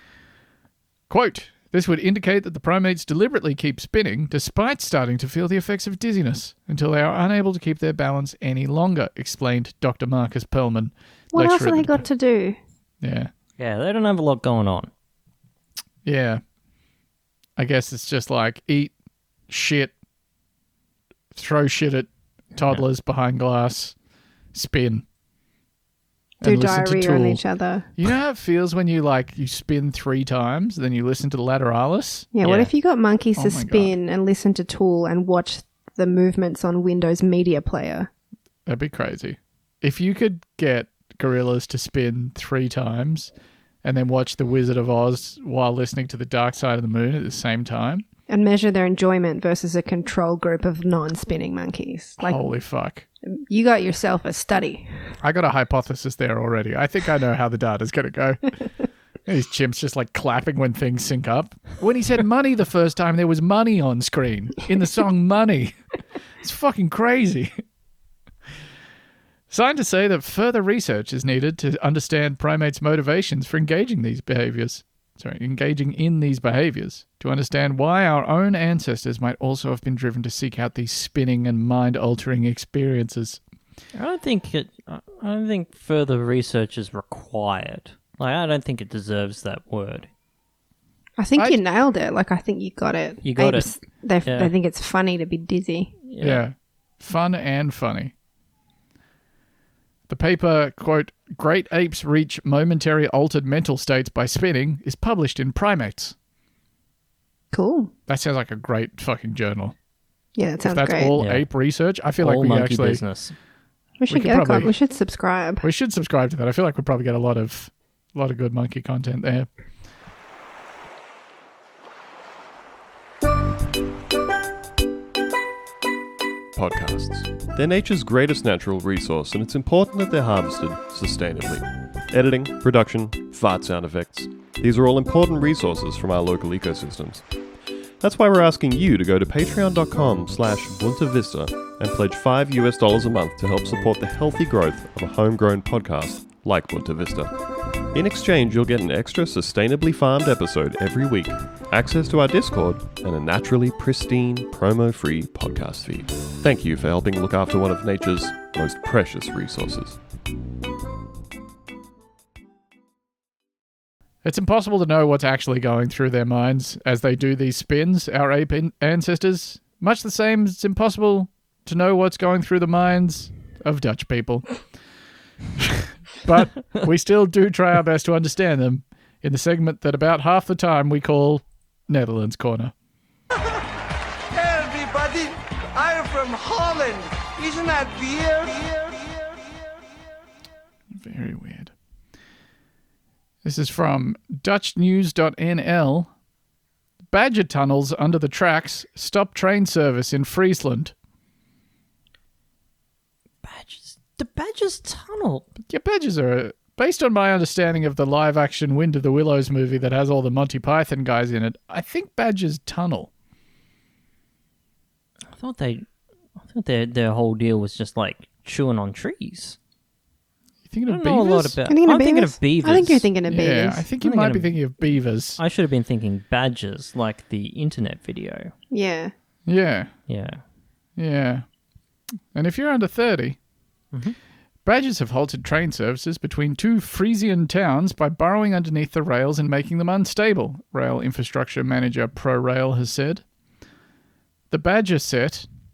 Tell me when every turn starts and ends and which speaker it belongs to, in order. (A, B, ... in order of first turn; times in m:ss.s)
0:01.1-0:12.0 A
0:11.3-0:12.6 B
0:13.0-0:13.3 A
0:13.6-0:14.9 C
0:16.0-0:16.4 A
0:17.6-0:18.9 A
0:19.5-0:19.9 A
0:21.3-0:24.0 A
0:22.6-0:22.8 C
0:24.5-0:25.0 A
0:26.4-0:27.4 A
0:26.4-0:27.9 B
0:28.0-0:32.3 A
0:32.3-0:38.1 B
0:32.4-0:32.7 C
0:33.4-0:33.9 A
0:38.7-0:43.3 A
0:43.8-0:48.0 A
0:48.3-0:52.4 B
0:52.2-0:53.1 A
0:53.5-0:54.9 B
0:55.2-0:58.4 A
0:59.3-1:05.8 A
1:06.4-1:07.5 A
1:09.5-1:23.4 A
1:24.0-1:30.1 C
1:31.2-1:35.9 B
1:33.2-1:33.7 C
1:34.2-1:34.5 C
1:36.1-1:36.4 C
1:36.2-1:38.1 A
1:40.1-1:46.2 A
1:47.5-1:47.9 B
1:48.1-1:49.8 A
1:50.4-1:51.1 B
1:50.6-1:53.0 A
1:51.2-1:51.5 C
1:52.2-1:53.3 C
1:54.0-1:55.7 B
1:54.1-1:54.7 A
1:55.6-1:59.5 A
2:06.5-2:17.2 D
2:18.0-2:27.3 D
2:27.9-2:40.0 D
2:44.2-2:54.5 A
2:55.6-3:02.7 A
3:04.3-3:09.4 E
3:11.0-3:11.7 A
3:13.4-3:16.1 A
3:17.1-3:20.9 A
3:23.4-3:25.5 C
3:25.7-3:33.1 A
3:35.4-3:35.8 C
3:36.4-3:39.6 C
3:40.7-3:41.6 A
3:40.9-3:43.1 C
3:41.7-3:43.8 B
3:43.3-3:45.4 A
3:44.0-3:44.6 C
3:45.4-3:48.5 C
3:48.7-3:49.1 B
3:49.5-3:49.9 A
3:50.1-3:50.4 C
3:51.0-3:51.4 A
3:52.3-3:53.4 A
3:54.6-4:03.2 A
4:04.5-4:05.5 A